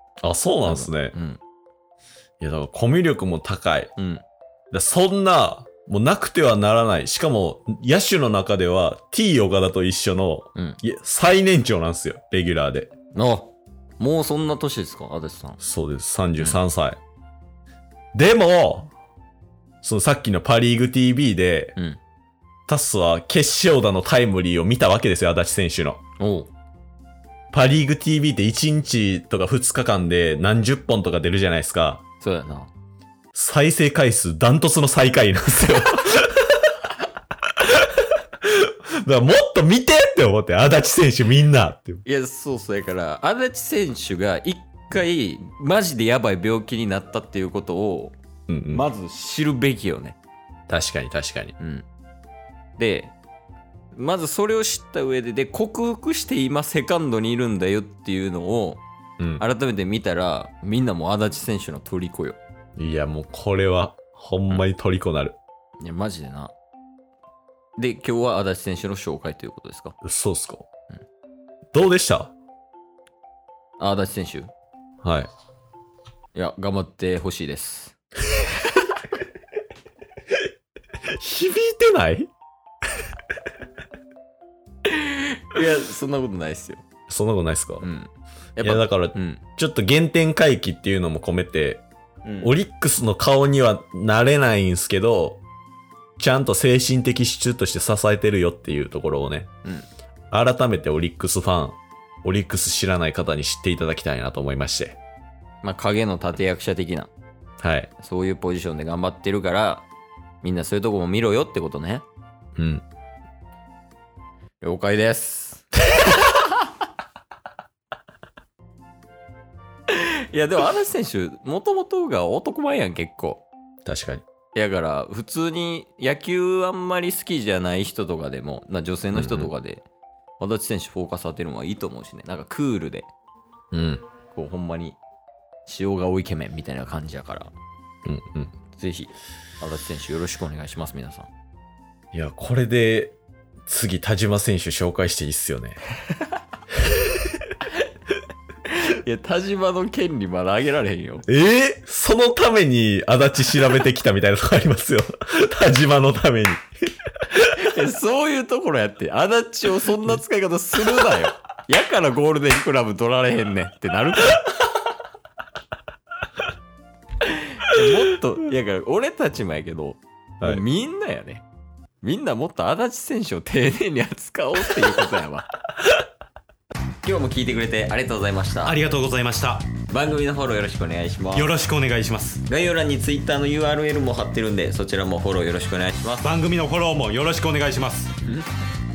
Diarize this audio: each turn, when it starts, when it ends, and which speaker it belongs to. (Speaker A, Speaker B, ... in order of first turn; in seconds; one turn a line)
Speaker A: 0.2-1.1
Speaker B: 0.6-1.4
Speaker A: 2.4-3.9
Speaker B: 4.0-4.2
Speaker A: 4.7-12.9
Speaker B: 13.1-15.6
Speaker A: 15.6-17.0
Speaker A: 18.1-18.9
Speaker A: 19.8-21.7
Speaker A: 22.7-26.0
Speaker B: 26.2-26.5
Speaker A: 27.5-32.0
Speaker B: 32.2-32.7
Speaker A: 33.3-36.6
Speaker B: 35.7-36.0
Speaker A: 37.6-42.0
Speaker B: 42.0-48.1
Speaker A: 48.5-48.8
Speaker B: 48.7-50.2
Speaker A: 50.7-51.5
Speaker B: 51.6-51.9
Speaker B: 52.8-53.1
Speaker B: 53.9-58.8
Speaker B: 59.4-62.4
Speaker A: 62.8-65.4
Speaker B: 65.8-66.5
Speaker B: 67.8-70.0
Speaker A: 70.0-70.7
Speaker A: 71.7-72.3
Speaker B: 73.8-74.5
Speaker A: 75.0-75.3
Speaker B: 76.3-78.0
Speaker B: 78.6-78.9
Speaker A: 81.0-82.3
Speaker B: 84.8-86.8
Speaker A: 87.1-87.8
Speaker B: 87.8-89.4
Speaker A: 88.6-91.8
Speaker B: 92.2-92.5
Speaker A: 92.4-95.4
Speaker A: 96.2-99.5
Speaker A: 100.3-105.0
Speaker B: 105.6-107.1
Speaker A: 107.6-107.9
Speaker B: 108.0-109.9
Speaker B: 110.4-112.0
Speaker A: 112.6-112.8
Speaker B: 114.6-116.7
Speaker B: 119.9-123.5
Speaker A: 123.8-124.2
Speaker B: 124.5-129.8
Speaker A: 129.1-129.5
Speaker B: 130.4-133.1
Speaker A: 133.7-134.0
Speaker B: 134.3-135.0
Speaker B: 135.7-137.5
Speaker A: 138.1-138.5
Speaker B: 138.7-141.3
Speaker A: 142.1-143.2
Speaker A: 143.7-145.8
Speaker B: 148.7-151.2
Speaker A: 151.3-156.6
Speaker B: 157.4-164.6
Speaker B: 167.2-171.4
Speaker B: 172.0-175.5
Speaker B: 177.0-178.8
Speaker C: 178.6-179.7
Speaker B: 179.9-181.6
Speaker C: 181.3-182.4
Speaker A: 181.7-182.1
Speaker B: 182.4-186.3
Speaker C: 186.2-188.1
Speaker A: 187.0-187.9